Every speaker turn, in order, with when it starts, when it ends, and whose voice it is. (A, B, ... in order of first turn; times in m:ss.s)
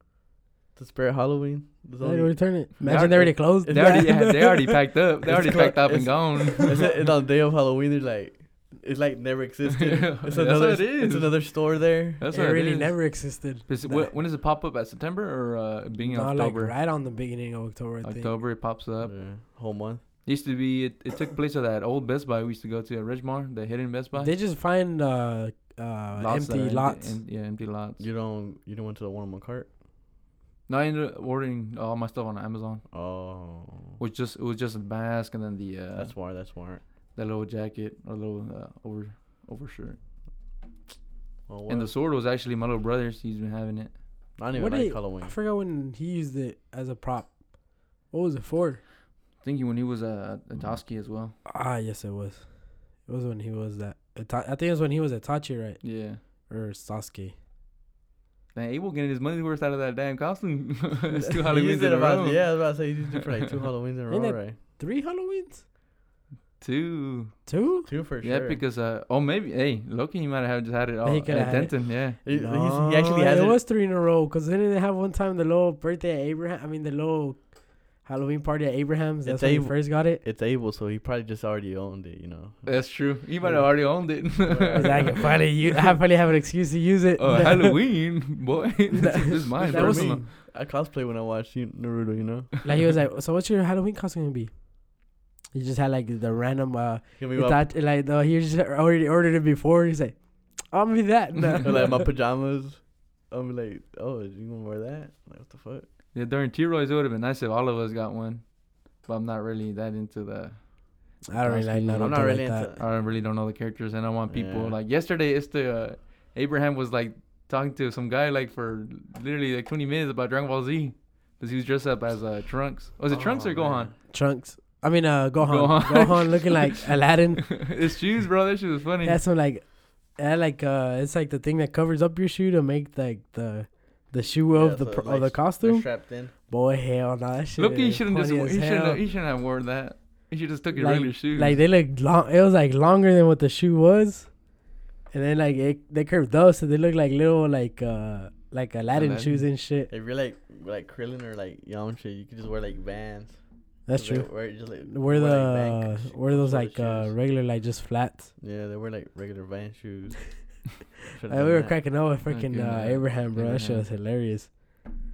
0:00.8-0:04.1 A
0:02.0-0:04.7 B
0:02.8-0:06.8 C
0:05.2-0:12.2 A
0:09.7-0:16.7 C
0:12.3-0:14.1 B
0:16.0-0:18.3 B
0:18.0-0:19.2 C
0:19.0-0:20.0 A
0:20.2-0:24.3 C
0:24.2-0:27.2 B
0:26.2-0:28.0 C
0:28.0-0:29.7 A
0:30.7-0:32.8 C
0:32.9-0:34.0 A
0:34.0-0:36.2 C
0:36.0-0:36.8 A
0:37.2-0:40.0 C
0:41.5-0:41.9 A
0:41.7-0:43.9 C
0:44.4-0:45.3 A
0:44.5-0:47.4 B
0:48.1-0:48.8 B
0:49.4-0:51.4 C
0:51.5-0:52.4 B
0:53.1-0:55.8 B
0:55.8-0:56.2 C
0:56.5-0:57.3 B
0:58.5-1:02.8 C
1:01.5-1:04.6 A
1:04.1-1:05.6 B
1:06.6-1:07.4 C
1:07.5-1:07.9 B
1:07.9-1:08.6 A
1:08.2-1:12.2 C
1:11.0-1:20.2 B
1:12.2-1:13.6 A
1:19.2-1:25.3 A
1:22.7-1:25.1 C
1:24.7-1:27.8 B
1:27.2-1:30.3 C
1:29.6-1:30.2 B
1:29.6-1:32.5 A
1:32.6-1:34.5 B
1:35.5-1:42.0 B
1:37.2-1:37.7 A
1:41.6-1:45.9 A
1:46.1-1:48.5 C
1:49.0-2:03.9 C
1:51.3-1:52.7 B
1:52.0-1:52.9 A
1:54.3-1:54.8 A
2:03.1-2:04.0 A
2:04.1-2:07.5 B
2:05.4-2:06.8 C
2:07.4-2:09.2 C
2:09.0-2:19.0 B
2:14.5-2:16.3 A
2:17.6-2:21.6 C
2:20.8-2:24.3 B
2:25.1-2:29.9 B
2:29.0-2:29.4 C
2:29.9-2:37.2 A
2:33.9-2:38.3 B
2:38.4-2:40.4 A
2:41.1-2:41.8 A
2:41.3-2:44.6 B
2:42.3-2:43.9 C